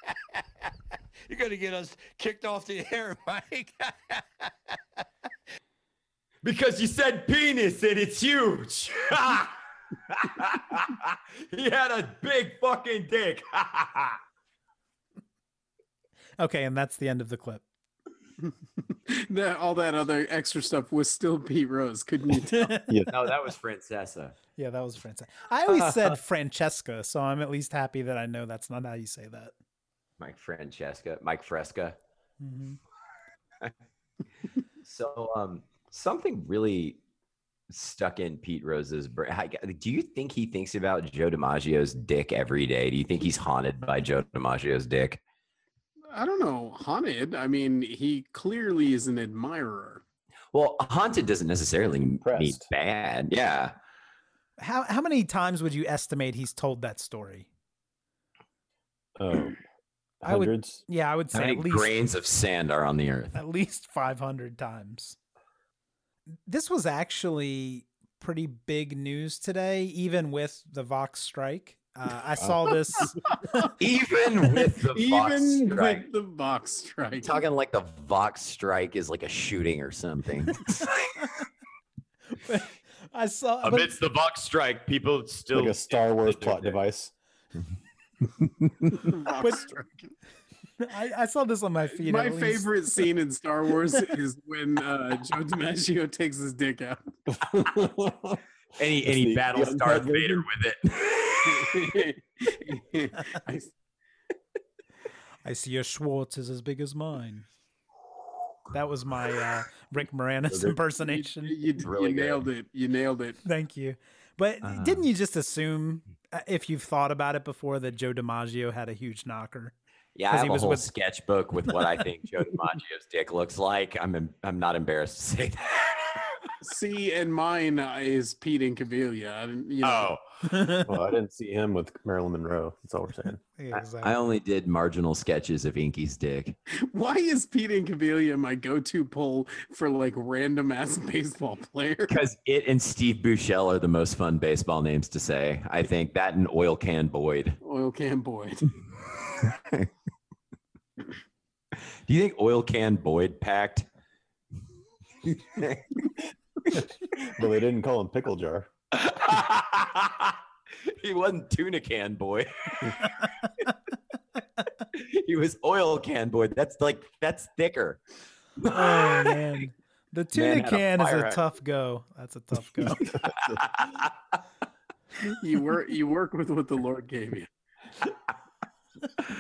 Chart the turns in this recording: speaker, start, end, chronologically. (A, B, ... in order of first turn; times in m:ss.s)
0:01.3-0:04.5 A
0:06.4-0:14.2 B
0:16.4-0:17.6 C
0:18.4-0:22.8 D
0:22.5-0:23.0 C
0:23.1-0:24.4 B
0:24.6-0:29.5 C
0:25.7-0:26.2 B
0:30.2-0:32.0 B
0:32.4-0:32.8 C
0:34.8-0:37.0 B
0:37.7-0:45.2 B
0:46.1-0:50.0 D
0:50.5-0:53.8 B
0:52.2-0:52.6 E
0:54.6-0:57.5 C
0:59.2-0:59.6 E
1:00.2-1:00.8 E
1:00.2-1:02.0 C
1:01.3-1:03.4 B
1:03.3-1:05.2 C
1:06.5-1:13.7 C
1:13.8-1:16.1 B
1:14.6-1:17.4 D
1:17.2-1:21.3 B
1:22.4-1:23.9 C
1:23.6-1:26.8 B
1:25.5-1:27.1 E
1:28.9-1:30.1 D
1:29.4-1:29.7 C
1:30.8-1:32.7 C
1:32.0-1:37.0 D
1:37.3-1:38.4 E
1:38.8-1:41.9 B
1:39.0-1:40.5 E
1:41.5-1:43.7 D
1:45.4-1:47.5 C
1:48.7-1:51.6 C
1:51.0-1:53.4 D
1:51.8-1:52.4 B
1:53.4-1:59.7 C
1:54.6-1:55.1 B
2:00.2-2:06.5 B
2:00.3-2:00.9 C
2:06.6-2:10.2 D
2:09.8-2:10.2 B
2:10.4-2:10.9 C
2:10.8-2:13.4 E
2:13.6-2:14.2 C
2:13.7-2:16.6 B
2:16.9-2:22.1 D
2:22.1-2:27.6 B
2:27.6-2:28.7 D
2:29.4-2:29.9 B
2:32.1-2:33.9 B
2:35.2-2:36.1 B
2:36.7-2:38.7 E
2:38.9-2:43.3 B
2:44.9-2:48.0 B
2:48.6-2:49.6 B
2:48.7-2:53.1 C
2:50.3-2:51.4 B
2:53.2-2:54.1 B
2:53.3-2:53.6 E
2:55.2-2:57.5 D